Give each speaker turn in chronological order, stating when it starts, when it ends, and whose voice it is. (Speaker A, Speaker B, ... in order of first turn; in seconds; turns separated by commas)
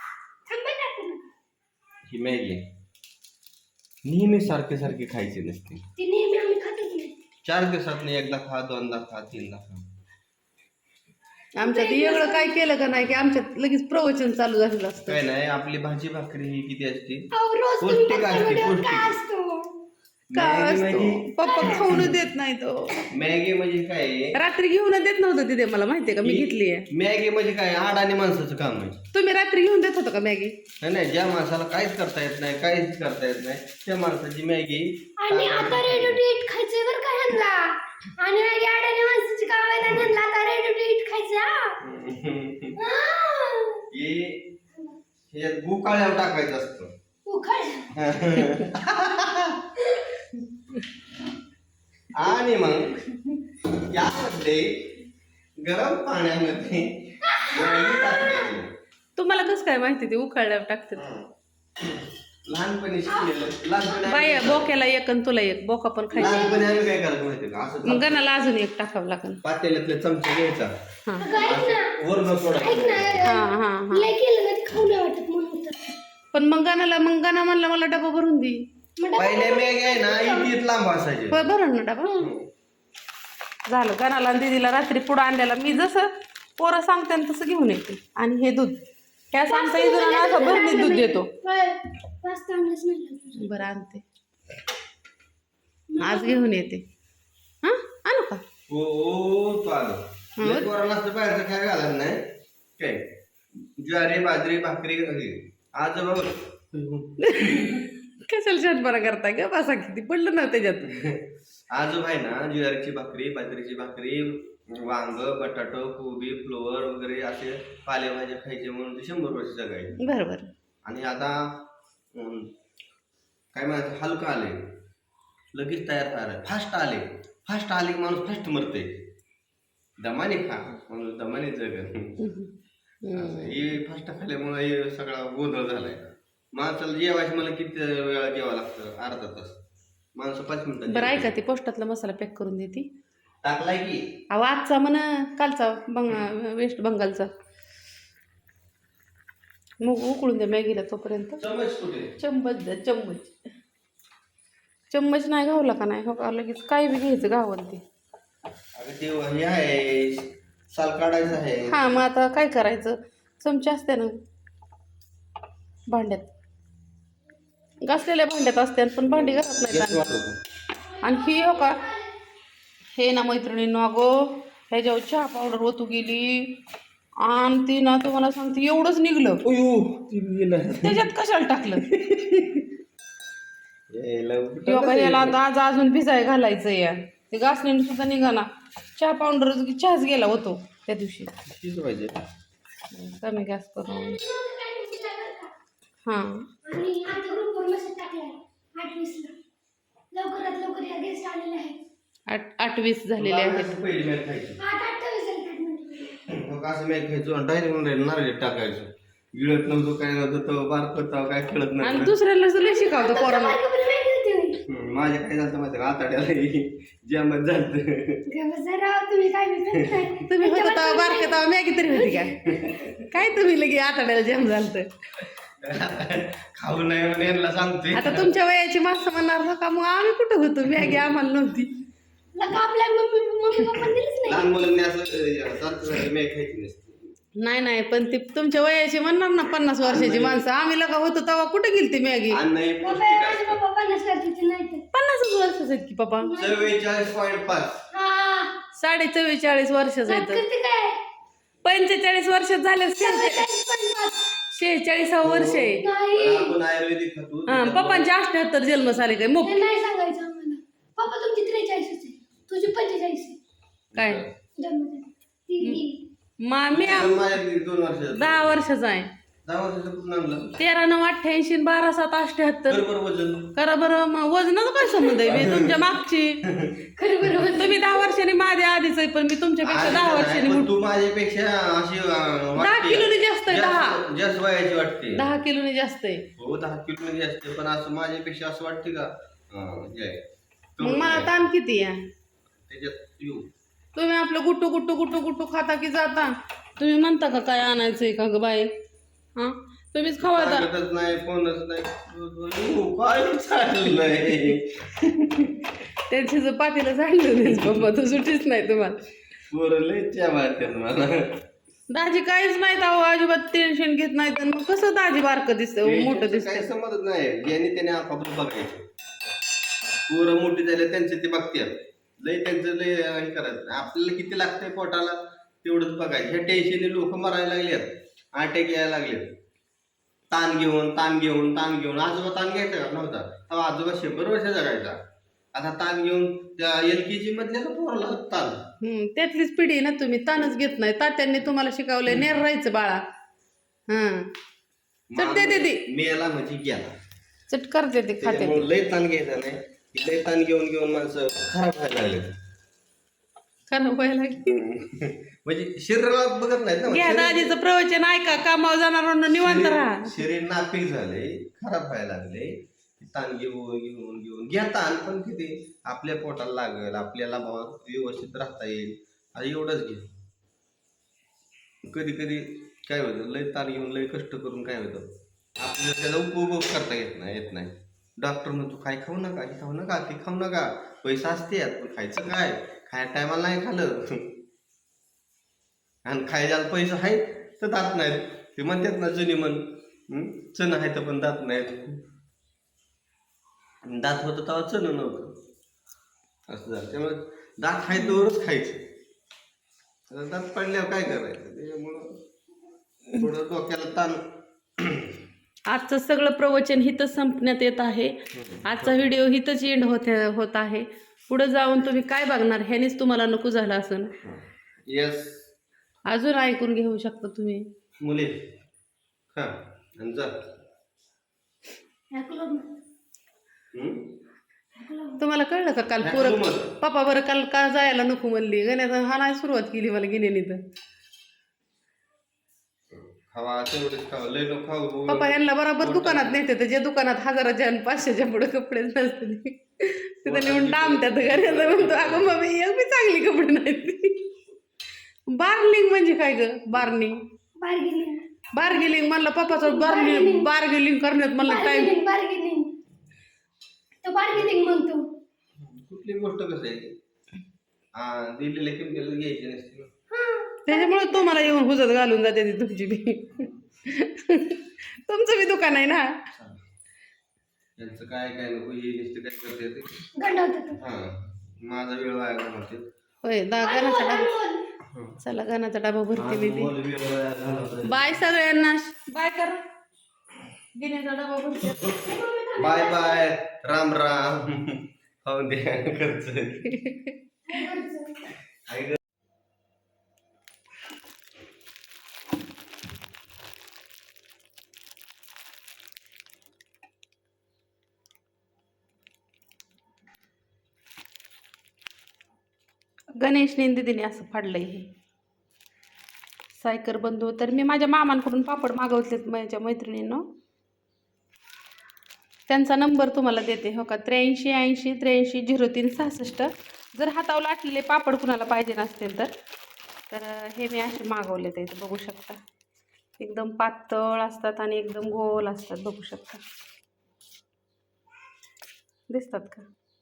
Speaker A: 0.5-1.3, Speaker B: 2.1-2.7, Speaker B: 4.0-5.8, Speaker A: 6.0-7.2, Speaker B: 7.5-9.8, Speaker C: 11.6-15.2, Speaker A: 11.6-12.7, Speaker B: 15.1-17.3, Speaker A: 17.3-19.7, Speaker B: 17.8-19.1, Speaker B: 20.3-22.2, Speaker C: 20.3-23.1, Speaker A: 21.4-22.0, Speaker B: 23.1-24.4, Speaker C: 24.3-26.9, Speaker B: 26.2-29.0, Speaker C: 29.1-30.6, Speaker B: 30.8-36.2, Speaker A: 35.2-41.8, Speaker B: 41.8-42.8, Speaker A: 42.8-43.9, Speaker B: 43.9-44.5, Speaker B: 45.3-46.9, Speaker A: 47.3-47.9, Speaker B: 47.9-49.8, Speaker B: 52.1-55.0, Speaker B: 55.6-58.7, Speaker A: 57.2-58.5, Speaker C: 59.2-61.0, Speaker B: 61.0-61.3, Speaker B: 62.5-64.7, Speaker A: 63.1-63.4, Speaker C: 64.1-66.5, Speaker A: 66.2-66.8, Speaker B: 66.2-68.2, Speaker C: 67.8-69.4, Speaker B: 69.4-70.7, Speaker A: 71.2-72.0, Speaker B: 71.3-73.3, Speaker A: 72.5-75.9, Speaker C: 73.2-74.1, Speaker C: 76.3-78.7, Speaker A: 79.0-80.5, Speaker B: 79.2-81.4, Speaker C: 81.3-82.1, Speaker A: 82.0-82.3, Speaker B: 82.2-82.5, Speaker C: 83.7-88.8, Speaker C: 89.3-91.3, Speaker A: 89.5-93.7, Speaker C: 93.3-94.0, Speaker A: 95.9-96.5, Speaker C: 96.0-96.8, Speaker C: 97.6-98.4, Speaker B: 98.7-107.8, Speaker C: 100.4-100.7, Speaker C: 107.2-111.0, Speaker B: 110.9-120.0, Speaker C: 120.0-120.5, Speaker B: 120.8-122.5, Speaker B: 123.5-124.7, Speaker B: 125.5-129.1, Speaker B: 130.0-132.2, Speaker C: 132.2-132.5, Speaker C: 133.0-133.7, Speaker B: 133.1-139.6, Speaker B: 140.2-141.3, Speaker C: 140.9-142.9, Speaker B: 143.4-144.0, Speaker C: 144.3-147.3, Speaker C: 149.8-151.4, Speaker B: 151.4-152.1, Speaker C: 152.2-153.3, Speaker C: 154.9-157.8, Speaker B: 158.8-162.0, Speaker C: 161.7-164.2, Speaker C: 165.9-166.3, Speaker C: 167.8-170.2, Speaker B: 169.1-170.4, Speaker A: 170.9-172.1, Speaker C: 171.0-171.8, Speaker C: 172.9-176.6, Speaker C: 177.2-179.4, Speaker B: 179.4-181.1, Speaker C: 180.8-181.9, Speaker B: 181.8-182.7, Speaker B: 183.9-185.4, Speaker C: 184.7-188.5, Speaker C: 189.0-191.3, Speaker B: 191.5-192.2, Speaker C: 192.9-194.2, Speaker A: 193.8-195.5, Speaker C: 196.1-196.5, Speaker A: 196.7-199.3, Speaker A: 200.1-201.8, Speaker C: 202.3-203.7, Speaker B: 203.2-204.6, Speaker A: 204.6-206.2, Speaker B: 206.3-212.1, Speaker C: 211.8-213.6, Speaker A: 212.6-214.6, Speaker B: 214.7-218.2, Speaker A: 218.3-222.8, Speaker B: 219.8-220.1, Speaker C: 220.2-222.4, Speaker B: 222.5-222.9, Speaker C: 223.0-224.9, Speaker B: 225.6-228.3, Speaker C: 227.9-231.7, Speaker A: 232.3-234.5, Speaker B: 234.3-237.1, Speaker C: 237.4-242.4, Speaker B: 239.8-240.4, Speaker B: 242.3-243.6, Speaker A: 242.8-244.8, Speaker C: 244.9-246.3, Speaker A: 246.2-246.8, Speaker B: 246.4-247.8, Speaker A: 247.9-248.5, Speaker C: 248.8-250.4, Speaker A: 250.1-251.0, Speaker C: 251.6-253.5, Speaker A: 253.0-254.2, Speaker C: 254.5-255.8, Speaker B: 255.2-258.1, Speaker A: 255.8-256.6, Speaker C: 257.5-259.6, Speaker A: 259.4-263.4, Speaker B: 263.9-264.3, Speaker C: 263.9-264.2, Speaker A: 264.6-266.0, Speaker C: 266.4-267.4, Speaker B: 266.7-268.6, Speaker C: 268.1-269.1, Speaker B: 269.4-270.6, Speaker C: 270.6-272.9, Speaker B: 272.7-273.5, Speaker C: 273.6-276.4, Speaker B: 275.2-275.8, Speaker B: 276.5-276.8, Speaker A: 277.0-278.1, Speaker C: 277.4-280.7, Speaker B: 279.6-285.3, Speaker C: 282.6-284.0, Speaker C: 285.1-286.3, Speaker B: 286.4-290.2, Speaker B: 290.8-291.3, Speaker C: 290.8-292.1, Speaker B: 292.7-293.5, Speaker C: 293.9-298.7, Speaker C: 299.4-300.7, Speaker B: 300.2-305.6, Speaker C: 306.1-309.0, Speaker B: 307.5-307.8, Speaker B: 309.5-311.4, Speaker C: 311.9-316.7, Speaker B: 315.8-318.8, Speaker B: 320.1-329.4, Speaker B: 330.3-335.0, Speaker B: 335.5-338.6, Speaker C: 338.8-343.0, Speaker C: 343.9-344.3, Speaker B: 345.1-346.9, Speaker C: 345.2-345.8, Speaker C: 347.5-348.7, Speaker B: 348.2-352.3, Speaker C: 353.7-354.6, Speaker B: 354.5-357.6, Speaker C: 356.9-360.2, Speaker B: 359.4-370.1, Speaker B: 371.8-375.1, Speaker B: 375.6-384.4, Speaker B: 386.1-392.0, Speaker B: 393.9-395.3, Speaker B: 396.5-398.9, Speaker B: 400.1-402.2, Speaker B: 403.1-404.2, Speaker B: 404.8-405.2, Speaker C: 405.7-414.1, Speaker B: 408.3-409.1, Speaker B: 414.2-415.4, Speaker C: 416.1-417.7, Speaker B: 418.0-418.5, Speaker B: 419.3-420.5, Speaker A: 422.1-422.7, Speaker B: 423.7-424.2, Speaker A: 424.8-425.2, Speaker C: 425.2-430.6, Speaker B: 426.0-426.8, Speaker B: 432.9-436.4, Speaker C: 435.1-444.2, Speaker B: 440.3-442.4, Speaker C: 445.3-447.2, Speaker A: 447.6-448.3, Speaker C: 448.5-451.9, Speaker A: 449.5-450.5, Speaker A: 451.4-452.7, Speaker A: 454.0-455.1, Speaker B: 455.6-456.9, Speaker B: 457.9-459.9, Speaker A: 460.1-461.5, Speaker C: 460.7-466.2, Speaker B: 466.3-466.6, Speaker B: 467.8-470.0, Speaker A: 470.2-470.8, Speaker B: 470.8-472.9, Speaker C: 473.2-474.3, Speaker A: 473.6-474.6, Speaker B: 474.9-475.2, Speaker C: 475.2-476.7, Speaker B: 476.2-478.1, Speaker C: 477.8-479.6, Speaker C: 480.8-482.0, Speaker A: 481.9-483.3, Speaker B: 482.6-486.8, Speaker C: 486.8-487.1, Speaker A: 487.5-488.3, Speaker B: 488.7-489.0, Speaker C: 503.2-504.9, Speaker C: 506.5-510.2, Speaker C: 512.5-519.3, Speaker C: 520.1-522.4, Speaker C: 523.2-526.4, Speaker C: 529.1-529.7